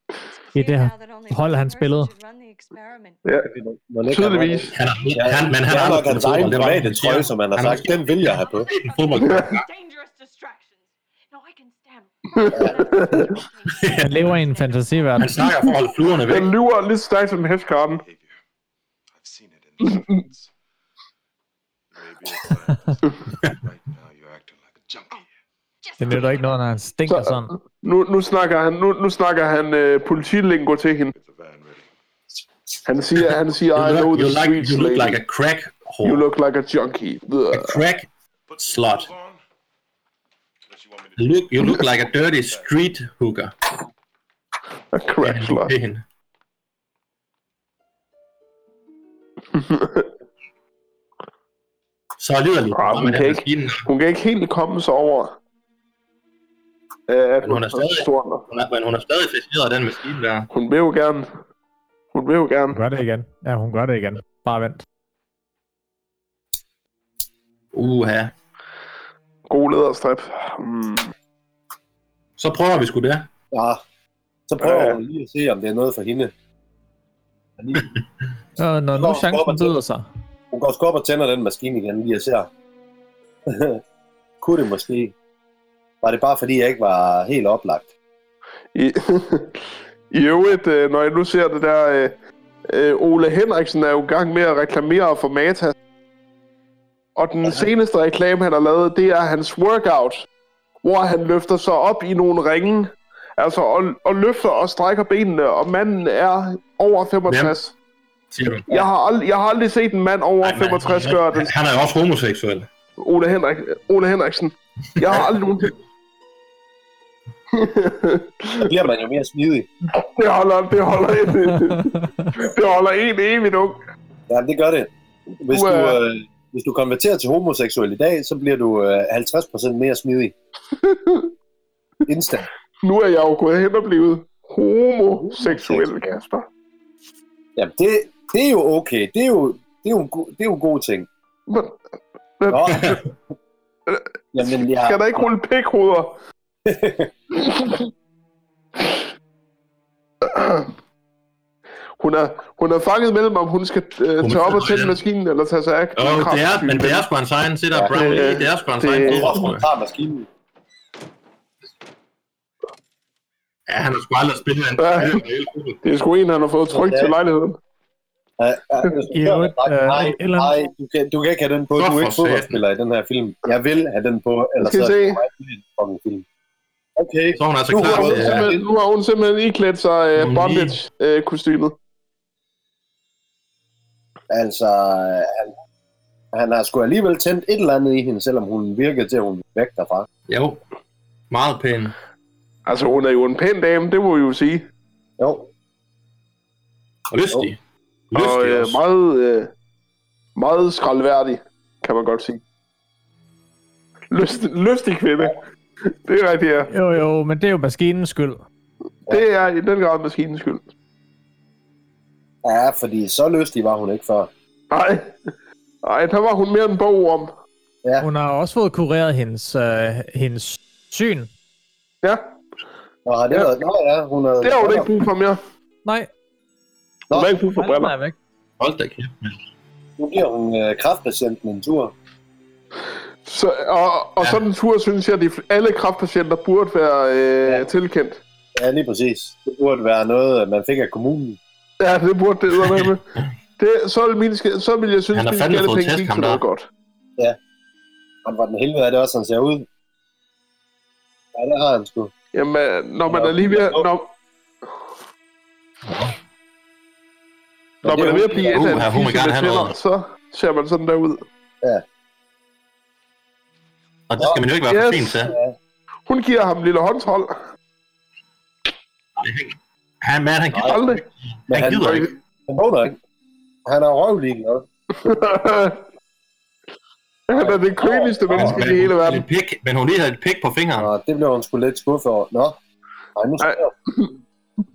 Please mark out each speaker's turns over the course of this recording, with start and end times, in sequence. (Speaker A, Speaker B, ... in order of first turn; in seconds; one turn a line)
Speaker A: 0.2-3.2
Speaker B: 0.6-2.1
Speaker C: 3.5-8.7
Speaker D: 4.1-4.7
Speaker E: 4.7-9.7
Speaker A: 7.7-15.5
Speaker D: 9.2-9.5
Speaker D: 12.4-13.4
Speaker C: 12.5-12.8
Speaker E: 13.7-14.3
Speaker B: 14.0-15.4
Speaker E: 15.2-16.5
Speaker D: 16.3-18.0
Speaker F: 17.9-18.4
Speaker F: 19.2-20.5
Speaker D: 19.9-20.2
Speaker F: 21.9-25.3
Speaker A: 25.8-26.5
Speaker B: 26.0-27.5
Speaker D: 27.1-31.1
Speaker F: 31.1-31.9
Speaker D: 32.9-35.2
Speaker E: 33.2-36.2
Speaker D: 36.0-37.8
Speaker E: 37.5-38.1
Speaker F: 38.5-39.4
Speaker E: 38.6-39.1
Speaker F: 40.7-42.7
Speaker E: 41.2-43.5
Speaker D: 44.9-45.7
Speaker E: 45.2-46.0
Speaker D: 49.5-50.1
Speaker E: 52.2-53.9
Speaker D: 52.8-55.4
Speaker D: 57.1-58.5
Speaker E: 57.4-60.5
Speaker D: 60.5-61.3
Speaker D: 62.1-62.8
Speaker B: 62.7-64.8
Speaker E: 67.7-68.3
Speaker D: 69.5-71.1
Speaker E: 72.4-73.3
Speaker C: 73.5-73.8
Speaker C: 74.5-76.3
Speaker D: 74.6-75.0
Speaker C: 77.6-77.9
Speaker B: 78.6-80.1
Speaker C: 78.9-79.8
Speaker C: 80.5-82.5
Speaker C: 83.5-83.8
Speaker C: 84.4-85.2
Speaker C: 86.0-87.9
Speaker D: 88.8-89.6
Speaker D: 90.1-92.2
Speaker D: 92.7-95.7
Speaker D: 97.2-100.3
Speaker C: 97.4-97.7
Speaker D: 100.8-107.7
Speaker E: 107.3-107.5
Speaker E: 108.3-108.9
Speaker D: 108.7-111.5
Speaker E: 110.4-112.7
Speaker D: 113.0-115.8
Speaker E: 115.0-115.3
Speaker D: 117.5-118.7
Speaker C: 118.6-119.7
Speaker D: 119.9-123.8
Speaker B: 121.5-122.3
Speaker C: 124.3-130.3
Speaker D: 125.5-126.0
Speaker D: 130.8-131.3
Speaker C: 132.1-132.5
Speaker D: 132.8-136.5
Speaker C: 135.2-136.1
Speaker C: 137.6-141.1
Speaker D: 141.5-141.8
Speaker D: 142.4-143.0
Speaker C: 142.5-143.0
Speaker E: 142.7-143.1
Speaker C: 144.3-145.3
Speaker D: 144.8-146.2
Speaker C: 146.7-147.1
Speaker D: 147.3-147.9
Speaker D: 150.2-150.7
Speaker D: 152.0-157.1
Speaker E: 154.2-155.0
Speaker E: 156.0-159.7
Speaker C: 157.7-158.3
Speaker D: 157.9-159.3
Speaker C: 159.0-160.3
Speaker E: 163.7-165.8
Speaker D: 164.8-165.2
Speaker D: 165.8-167.6
Speaker C: 166.7-167.2
Speaker C: 168.4-176.2
Speaker B: 169.1-170.5
Speaker E: 171.8-172.6
Speaker D: 174.6-175.2
Speaker C: 177.0-178.6
Speaker E: 177.4-178.5
Speaker D: 177.8-181.8
Speaker E: 180.2-180.8
Speaker C: 184.3-185.5
Speaker C: 186.3-190.1
Speaker E: 190.3-190.6
Speaker E: 191.3-191.9
Speaker D: 192.7-194.7
Speaker C: 195.2-195.5
Speaker E: 197.1-197.6
Speaker E: 198.1-198.8
Speaker D: 198.1-199.5
Speaker D: 200.4-202.4
Speaker D: 204.1-206.7
Speaker B: 206.7-208.4
Speaker D: 209.1-210.6
Speaker C: 212.4-214.3
Speaker D: 214.7-215.2
Speaker D: 215.8-217.3
Speaker B: 218.0-221.3
Speaker D: 222.0-222.3
Speaker C: 223.1-224.9
Speaker D: 224.4-225.4
Speaker D: 227.1-227.9
Speaker B: 227.6-228.2
Speaker E: 228.6-229.4
Speaker C: 230.0-231.9
Speaker D: 233.3-238.2
Speaker C: 238.6-241.4
Speaker D: 241.8-243.0
Speaker E: 242.6-243.3
Speaker D: 243.6-246.7
Speaker E: 245.1-246.4
Speaker C: 248.2-249.7
Speaker C: 251.3-252.1
Speaker D: 252.3-254.1
Speaker C: 253.1-253.9
Speaker E: 255.9-256.1
Speaker C: 257.8-258.8
Speaker D: 257.8-261.2
Speaker E: 258.5-259.8
Speaker E: 264.1-265.3
Speaker D: 264.7-265.1
Speaker C: 265.2-265.6
Speaker D: 266.1-267.4
Speaker E: 269.2-272.1
Speaker D: 270.6-271.0
Speaker C: 271.5-273.0
Speaker C: 273.7-274.7
Speaker D: 275.0-275.8
Speaker D: 277.3-279.2
Speaker C: 277.3-278.7
Speaker E: 278.3-280.9
Speaker C: 280.8-282.6
Speaker C: 283.2-283.7
Speaker D: 283.4-284.1